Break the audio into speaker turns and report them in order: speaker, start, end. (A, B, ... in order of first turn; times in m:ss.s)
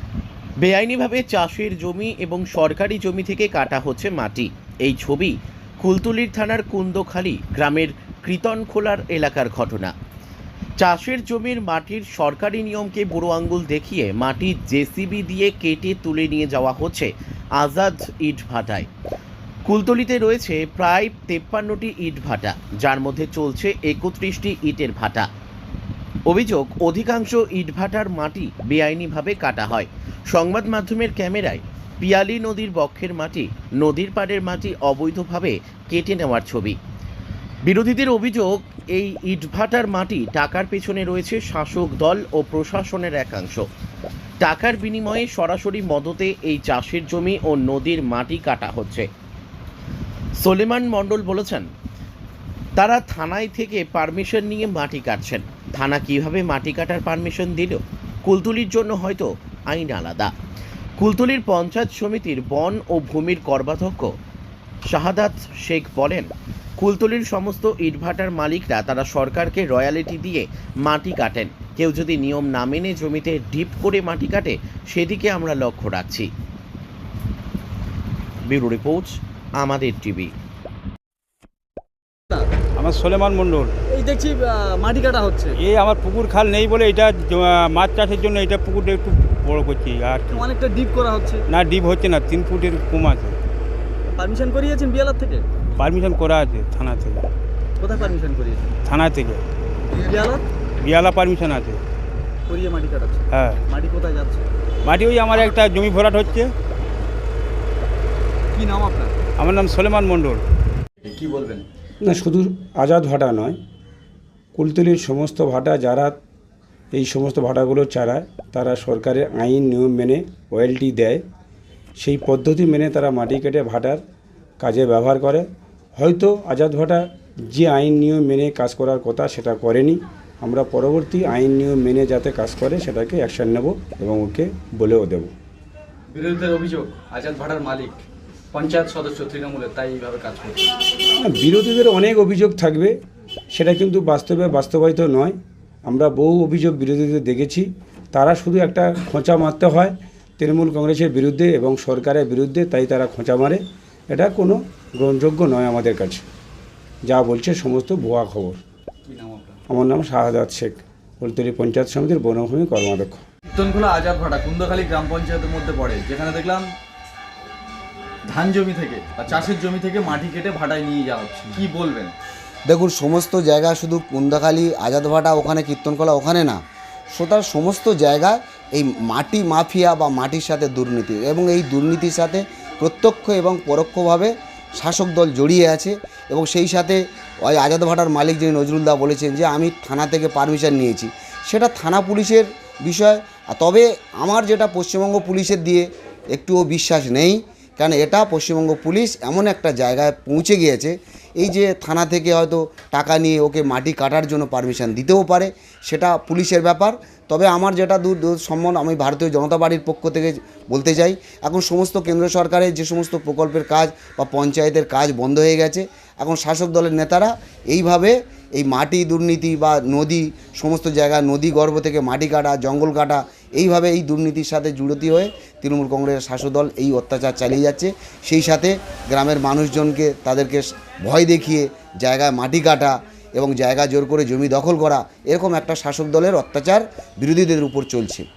0:00.6-0:09.9 A
0:10.8-0:18.9 A
0:19.7-0:25.3 A
0:26.3-0:36.8 A
0:37.6-0:43.7 A
0:44.4-0:49.1 A
0:50.4-0:51.7 A
0:52.8-1:00.3 A
1:01.0-1:04.1 A
1:04.9-1:16.3 A
1:18.5-1:20.3 A
1:22.8-1:23.7 B
1:23.9-1:25.6 C
1:25.6-1:30.4 B
1:30.3-1:31.4 C
1:31.5-1:33.4 B
1:34.1-1:35.4 C
1:35.8-1:37.2 B
1:37.8-1:38.7 C
1:38.9-1:39.4 B
1:40.1-1:40.4 C
1:40.8-1:41.8 B
1:42.5-1:44.5 C
1:43.3-1:43.6 B
1:44.8-1:46.5 B
1:48.5-1:49.1 C
1:49.4-1:50.4 B
1:51.0-1:51.7 D
1:52.0-1:53.6 E
1:54.6-1:56.1 E
1:56.9-2:01.2 E
2:02.0-2:04.0 E
2:04.6-2:05.5 E
2:06.0-2:15.3 E
2:16.1-2:20.7 D
2:21.2-2:22.9 E
2:23.6-2:25.4 E
2:25.9-2:36.2 E
2:37.1-2:38.6 E
2:39.1-2:39.6 D
2:39.7-2:43.2 E
2:43.4-2:46.7 D
2:48.2-2:52.1 D
2:52.7-2:56.6 F
2:57.2-3:58.3 F